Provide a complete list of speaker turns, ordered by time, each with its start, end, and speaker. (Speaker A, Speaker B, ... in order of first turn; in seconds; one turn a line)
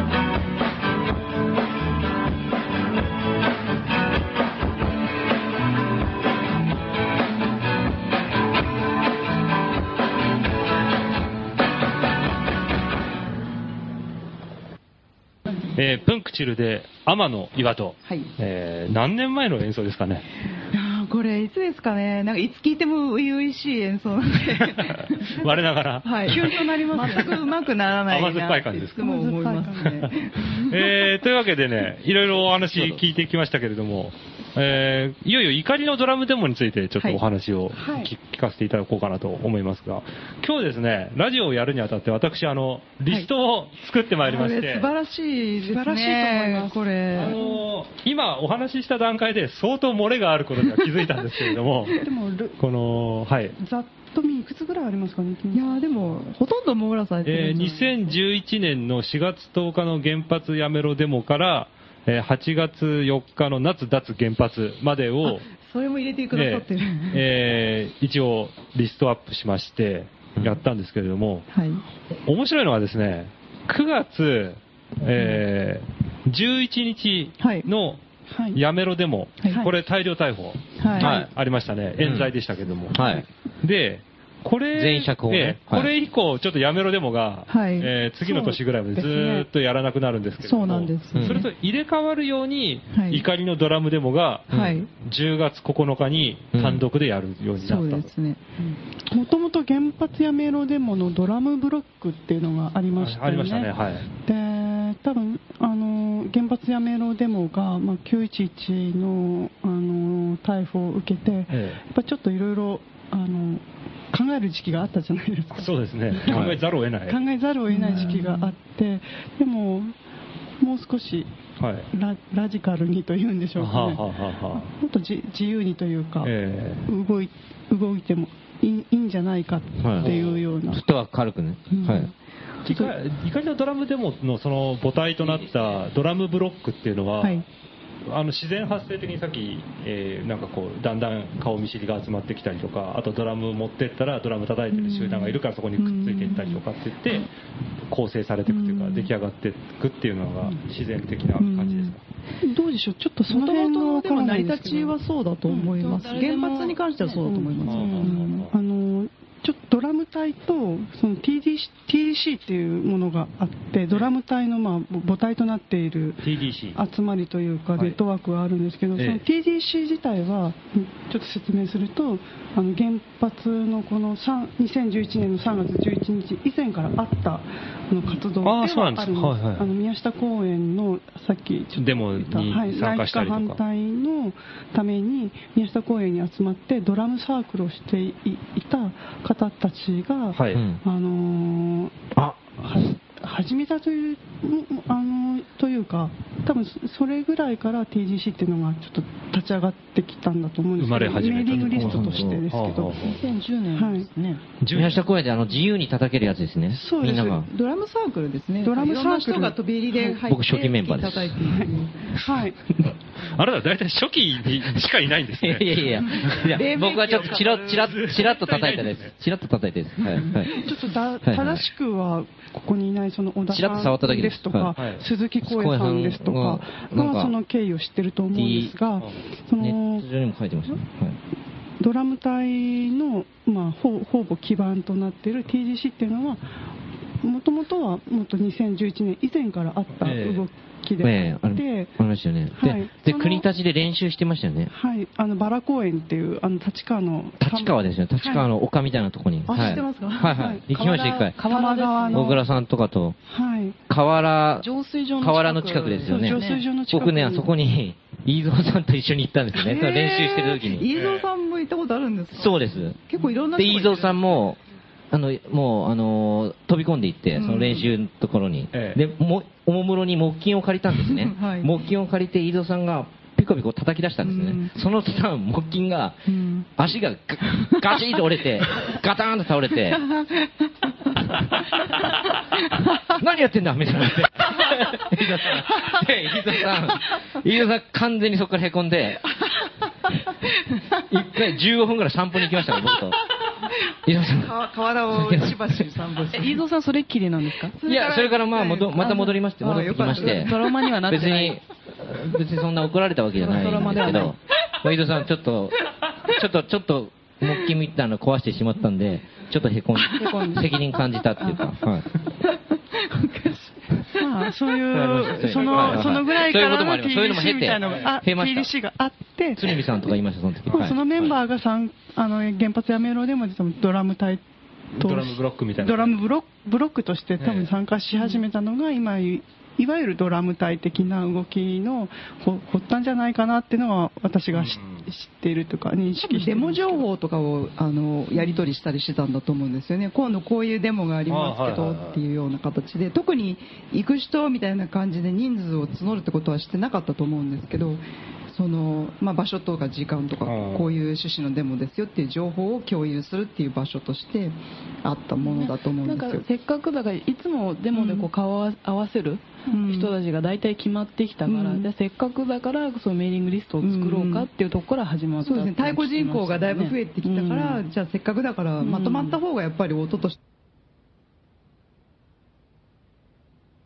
Speaker A: 15.8-20.3
Speaker B: 20.7-25.4
Speaker A: 24.6-27.4
Speaker B: 26.0-31.1
Speaker C: 26.4-27.4
Speaker A: 27.9-29.1
Speaker C: 29.0-30.1
Speaker A: 29.8-44.9
Speaker C: 37.7-38.1
Speaker B: 44.2-47.4
Speaker C: 45.6-46.8
Speaker A: 47.1-52.0
Speaker C: 52.0-52.6
Speaker A: 52.6-53.6
Speaker C: 53.6-55.8
Speaker B: 55.5-58.0
Speaker A: 57.2-65.5
Speaker B: 65.2-67.2
Speaker A: 66.3-71.5
Speaker B: 71.5-71.8
Speaker A: 72.3-78.0
Speaker B: 77.4-77.7
Speaker C: 78.3-78.6
Speaker A: 78.5-83.0
Speaker B: 80.8-81.1
Speaker D: 81.0-81.3
Speaker D: 82.0-82.3
Speaker D: 82.9-83.3
Speaker A: 83.6-98.1
Speaker D: 84.7-85.9
Speaker B: 87.5-89.4
Speaker C: 88.3-88.5
Speaker B: 90.4-91.5
Speaker D: 91.2-91.5
Speaker B: 92.9-93.2
Speaker D: 94.5-94.8
Speaker B: 94.5-94.9
Speaker D: 96.5-96.8
Speaker B: 97.6-98.5
Speaker C: 99.1-120.0
Speaker A: 103.0-104.1
Speaker A: 111.5-111.8
Speaker A: 115.5-117.2
Speaker D: 116.3-116.6
Speaker B: 117.7-118.5
Speaker A: 117.9-118.2
Speaker C: 120.6-121.3
Speaker A: 121.6-121.9
Speaker C: 121.9-126.3
Speaker A: 123.6-124.7
Speaker A: 126.2-126.8
Speaker C: 126.9-130.8
Speaker D: 129.8-132.1
Speaker A: 130.0-130.4
Speaker B: 131.7-132.0
Speaker A: 132.7-137.4
Speaker D: 135.2-135.9
Speaker A: 138.1-147.3
Speaker C: 144.7-145.4
Speaker B: 145.8-146.6
Speaker A: 147.9-152.0
Speaker B: 148.5-149.1
Speaker B: 151.4-152.0
Speaker C: 152.4-155.0
Speaker B: 153.3-158.5
Speaker E: 155.5-158.1
Speaker C: 157.3-192.0
Speaker A: 157.7-158.5
Speaker A: 166.2-166.8
Speaker A: 169.0-169.2
Speaker A: 178.4-179.7
Speaker A: 181.8-183.6
Speaker A: 190.3-190.6
Speaker D: 190.5-190.8
Speaker D: 192.2-192.8
Speaker C: 192.6-203.1
Speaker A: 200.8-203.2
Speaker D: 201.4-202.4
Speaker E: 203.0-204.4
Speaker C: 203.7-204.1
Speaker A: 204.6-205.0
Speaker D: 204.7-207.5
Speaker C: 206.7-207.4
Speaker B: 207.1-212.1
Speaker C: 208.6-210.2
Speaker D: 210.2-211.6
Speaker C: 211.5-212.6
Speaker A: 213.2-216.5
Speaker D: 215.4-220.6
Speaker B: 216.3-218.6
Speaker A: 217.4-219.1
Speaker B: 220.0-220.4
Speaker C: 220.6-230.1
Speaker D: 221.2-221.7
Speaker D: 223.5-224.8
Speaker A: 224.8-225.1
Speaker D: 225.4-227.3
Speaker D: 228.3-228.8
Speaker D: 229.6-231.2
Speaker C: 231.8-236.4
Speaker C: 237.2-241.9
Speaker D: 240.0-240.4
Speaker D: 241.0-244.7
Speaker C: 242.6-243.4
Speaker C: 244.7-248.5
Speaker D: 247.4-251.4
Speaker B: 249.5-250.3
Speaker E: 249.6-252.3
Speaker C: 250.2-250.7
Speaker C: 251.4-252.4
Speaker D: 252.1-253.2
Speaker C: 253.3-253.8
Speaker D: 253.9-260.9
Speaker E: 254.6-256.7
Speaker C: 256.1-257.5
Speaker B: 259.6-264.4
Speaker A: 260.9-261.3
Speaker D: 262.3-263.0
Speaker D: 263.6-264.6
Speaker D: 265.1-280.2
Speaker B: 267.4-267.9
Speaker A: 268.7-269.0
Speaker B: 271.1-271.7
Speaker B: 274.2-274.7
Speaker B: 276.3-276.7
Speaker D: 283.0-289.4
Speaker D: 291.1-293.2
Speaker D: 294.1-295.9
Speaker B: 294.1-296.6
Speaker E: 296.3-297.8
Speaker B: 297.7-300.6
Speaker D: 297.8-312.1
Speaker E: 300.0-301.6
Speaker E: 303.4-304.4
Speaker E: 310.2-310.6
Speaker B: 311.4-311.8
Speaker B: 312.9-314.2
Speaker C: 314.2-319.8
Speaker A: 314.9-316.3
Speaker D: 314.9-318.7
Speaker A: 317.8-318.1
Speaker D: 319.6-321.4
Speaker A: 320.7-320.9
Speaker C: 320.7-324.4
Speaker A: 325.0-326.2
Speaker C: 325.0-337.0
Speaker A: 327.4-327.7
Speaker A: 334.5-335.1
Speaker B: 336.2-356.4
Speaker A: 341.3-342.2
Speaker A: 350.4-350.9
Speaker E: 355.4-367.8
Speaker B: 357.9-358.3
Speaker B: 359.7-360.1
Speaker B: 361.5-361.9
Speaker B: 363.8-364.5
Speaker B: 365.4-370.4
Speaker E: 368.8-369.4